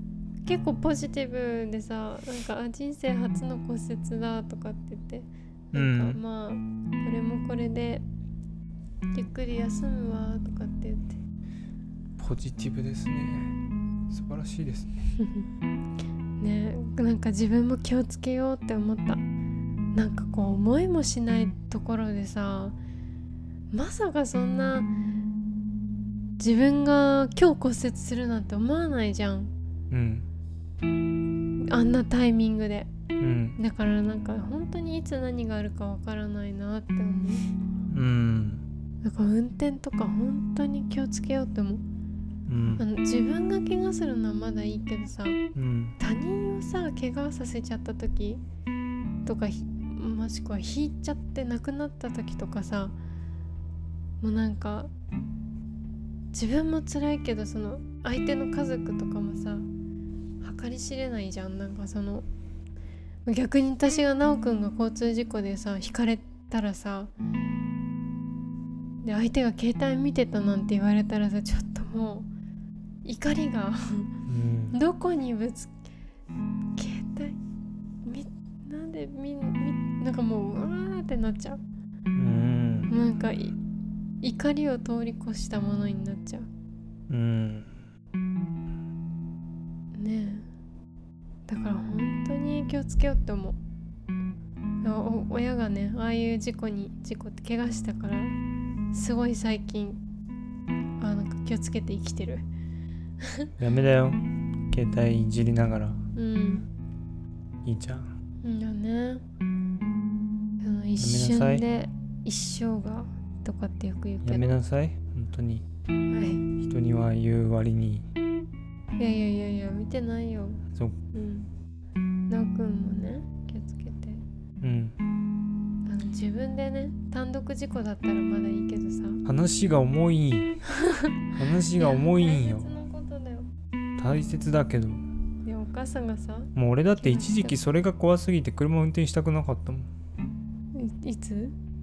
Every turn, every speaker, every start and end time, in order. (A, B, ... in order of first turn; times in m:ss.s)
0:00.4-0:08.0 A
0:05.7-0:06.2 B
0:09.1-0:11.2 A
0:12.2-0:13.5 B
0:14.1-0:15.0 B
0:15.2-0:15.5 A
0:16.4-0:19.2 A
0:19.9-0:22.8 A
0:23.7-0:24.9 A
0:26.4-0:29.5 A
0:29.9-0:30.3 B
0:31.6-0:32.9 A
0:33.2-0:33.6 B
0:33.6-0:37.5 A
0:37.9-0:38.6 B
0:39.0-0:41.8 A
0:42.5-0:42.9 B
0:42.8-0:45.4 A
0:45.6-0:46.0 B
0:46.0-0:48.4 A
0:49.2-0:53.0 A
0:54.2-0:54.9 A
0:56.3-0:59.7 A
1:00.4-1:02.3 A
1:03.3-1:07.1 A
1:09.0-1:12.3 A
1:13.0-1:14.1 A
1:14.3-1:14.8 B
1:14.7-1:15.7 A
1:16.8-1:17.4 A
1:18.0-1:21.6 A
1:22.2-1:22.9 B
1:22.9-1:23.6 A
1:24.2-1:26.5 A
1:27.1-1:27.8 B
1:29.9-1:30.5 A
1:31.5-1:33.6 A
1:34.8-1:38.4 A
1:38.9-1:40.0 A
1:41.0-1:42.4 A
1:43.2-1:43.5 A
1:43.6-1:46.0 B
1:46.2-1:46.7 A
1:47.6-1:48.1 B
1:48.4-1:49.2 A
1:50.6-1:54.5 A
1:51.0-1:51.6 B
1:54.2-1:55.6 B
1:56.1-1:56.4 A
1:56.6-1:58.1 B
1:59.0-2:01.5 A
2:02.3-2:04.2 A
2:04.6-2:05.0 B
2:05.9-2:09.2 A
2:09.2-2:10.6 B
2:10.8-2:11.1 A
2:11.4-2:12.7 B
2:11.8-2:13.5 A
2:14.0-2:15.0 B
2:15.4-2:17.6 A
2:16.6-2:19.9 B
2:20.7-2:21.6 A